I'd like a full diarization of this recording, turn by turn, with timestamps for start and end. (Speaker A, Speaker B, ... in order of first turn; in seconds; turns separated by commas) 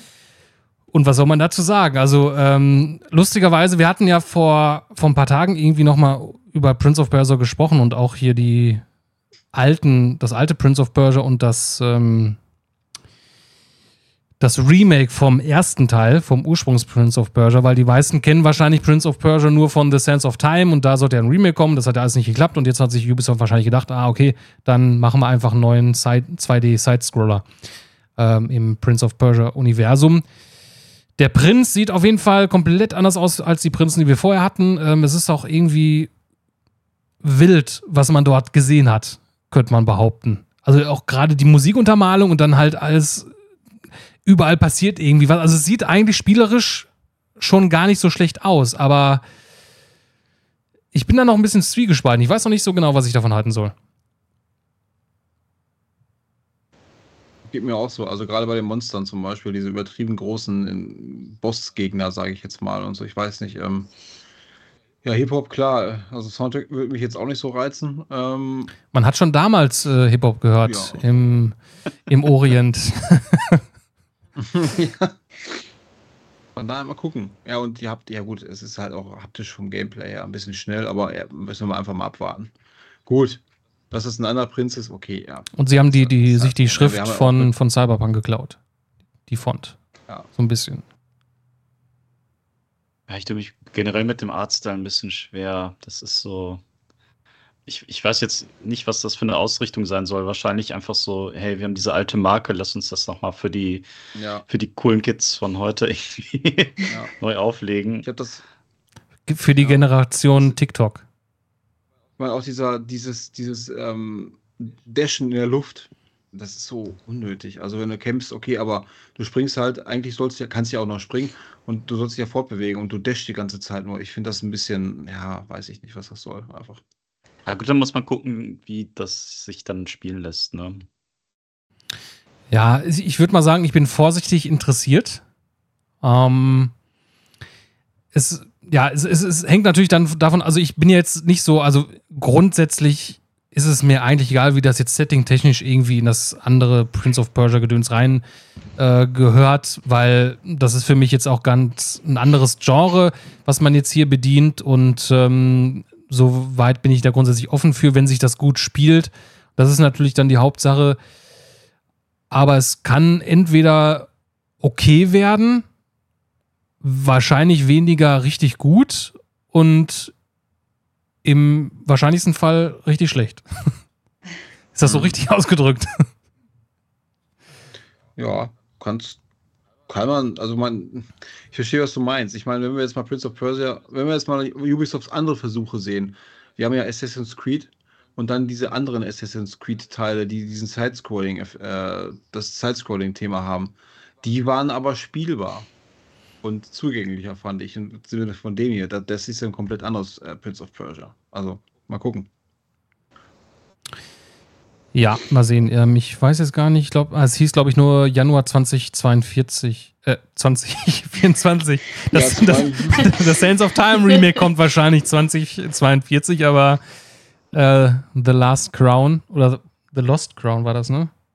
Speaker A: 0.9-8.8, Speaker A: 9.5-12.4, Speaker A: 14.4-27.4, Speaker A: 28.2-30.2, Speaker A: 31.2-36.1, Speaker A: 37.2-43.3, Speaker A: 44.2-49.2, Speaker A: 50.9-53.7, Speaker B: 57.4-63.9, Speaker B: 65.0-68.7, Speaker A: 68.9-73.6, Speaker B: 70.6-71.0, Speaker B: 74.3-75.2, Speaker B: 76.5-82.5, Speaker B: 83.0-87.5, Speaker A: 85.5-88.6, Speaker A: 89.3-89.8, Speaker A: 90.3-90.8, Speaker C: 93.1-96.6, Speaker C: 97.7-103.8, Speaker B: 104.1-104.4, Speaker C: 104.5-108.1, Speaker B: 108.0-108.4, Speaker A: 109.3-111.0, Speaker B: 112.2-126.8, Speaker C: 127.5-130.8, Speaker A: 132.5-135.2, Speaker A: 136.0-136.7, Speaker A: 138.1-148.2, Speaker A: 148.8-161.0, Speaker A: 162.3-164.1, Speaker A: 164.6-165.6, Speaker A: 166.8-170.1, Speaker A: 171.2-173.7, Speaker A: 174.7-176.0, Speaker B: 174.8-175.1, Speaker B: 178.2-179.2, Speaker B: 179.9-195.7, Speaker B: 196.4-202.3, Speaker A: 204.9-216.8, Speaker B: 212.1-213.1, Speaker A: 217.5-221.1